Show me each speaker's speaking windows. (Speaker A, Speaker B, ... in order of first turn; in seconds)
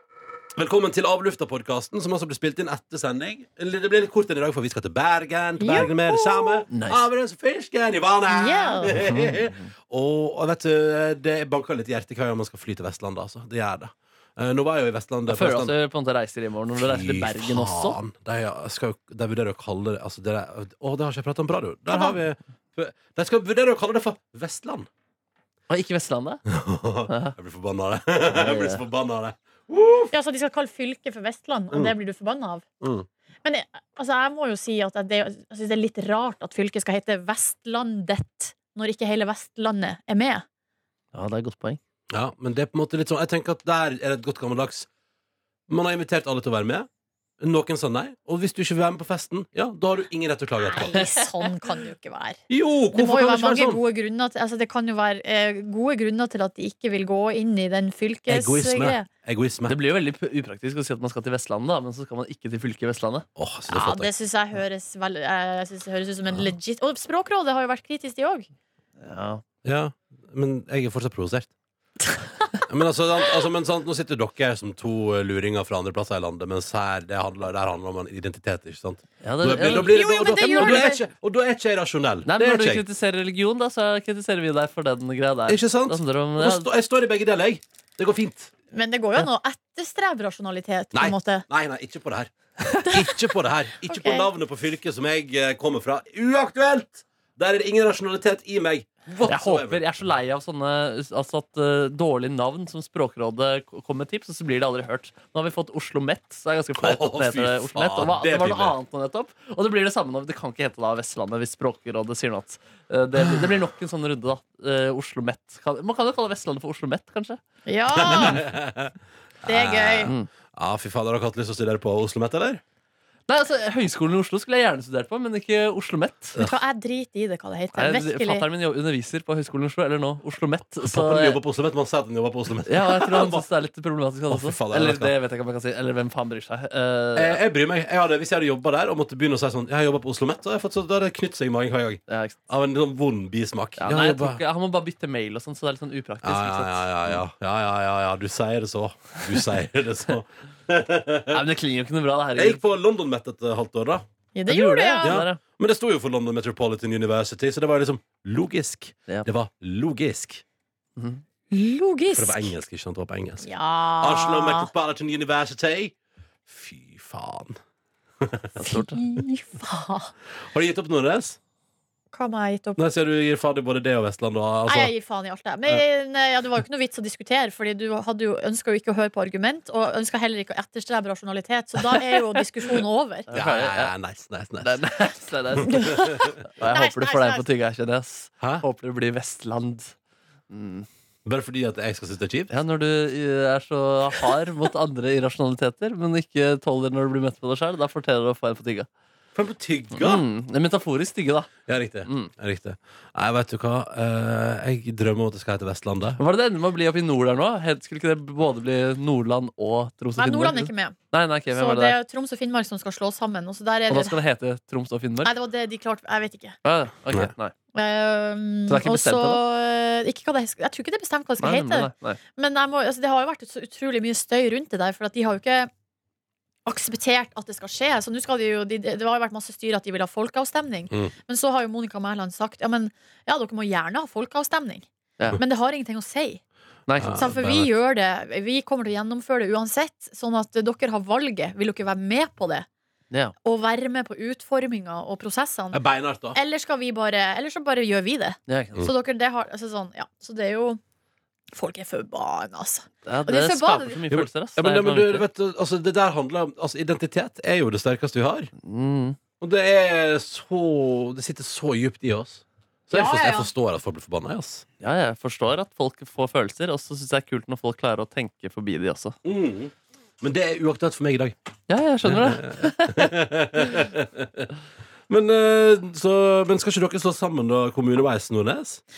Speaker A: 0.6-15.7, 16.8-24.9, 26.5-30.1, 32.8-33.1, 42.1-44.9, 45.7-46.9, 47.4-51.0, 52.5-53.8, 58.3-59.8, 63.4-64.1, 69.6-71.5, 72.7-82.8, 85.5-88.5, 90.9-99.8, 106.8-108.8, 117.9-118.9, 119.5-122.6, 130.8-133.5, 134.3-135.1, 137.2-144.4, 146.2-151.4, 152.3-154.0, 155.0-160.4, 162.1-165.9, 166.5-167.6, 168.2-168.6, 170.5-171.4, 172.8-174.9, 183.3-184.8, 188.4-188.6, 191.2-192.5, 199.3-200.2, 201.7-206.2, 237.0-237.7, 245.7-246.4, 254.1-258.5, 259.4-264.6, 269.2-271.3, 272.0-274.5, 275.1-278.8
Speaker B: 5.6-6.6, 8.3-9.0, 21.9-22.2, 30.1-32.6, 33.4-40.4, 50.6-52.4, 52.9-59.1, 63.7-68.5, 79.5-81.0, 88.7-91.4, 92.7-93.2, 93.8-94.3, 117.7-118.4, 119.5-120.1, 126.4-128.5, 154.3-155.2, 161.5-162.5, 163.4-164.7, 168.6-170.1, 172.1-172.8, 174.7-183.3, 185.6-187.5, 210.2-211.0, 211.5-214.2, 215.2-216.6, 217.7-225.7, 226.6-236.4, 237.1-242.7, 243.4-245.8, 246.3-250.8, 251.5-254.0, 262.9-263.5
Speaker C: 6.7-7.1, 8.9-9.7, 15.3-18.0, 25.7-26.4, 27.1-27.3, 28.3-28.8, 41.1-41.8, 51.0-51.2, 59.6-63.2, 69.0-69.4, 79.2-80.9, 82.2-86.7, 99.2-117.4, 123.3-126.4, 127.7-131.4, 132.6-137.4, 142.1-142.4, 143.8-147.2, 151.3-152.6, 154.5-155.4, 161.0-161.2, 168.6-169.0, 181.9-182.2, 183.3-183.9, 184.6-189.9, 190.5-190.9, 192.5-198.9, 199.9-201.5, 206.2-212.0, 213.9-215.3, 216.6-217.5, 218.7-219.4, 221.4-222.2, 236.9-237.3, 248.5-248.9, 253.0-255.2, 258.6-259.2, 264.8-269.1, 271.7-273.1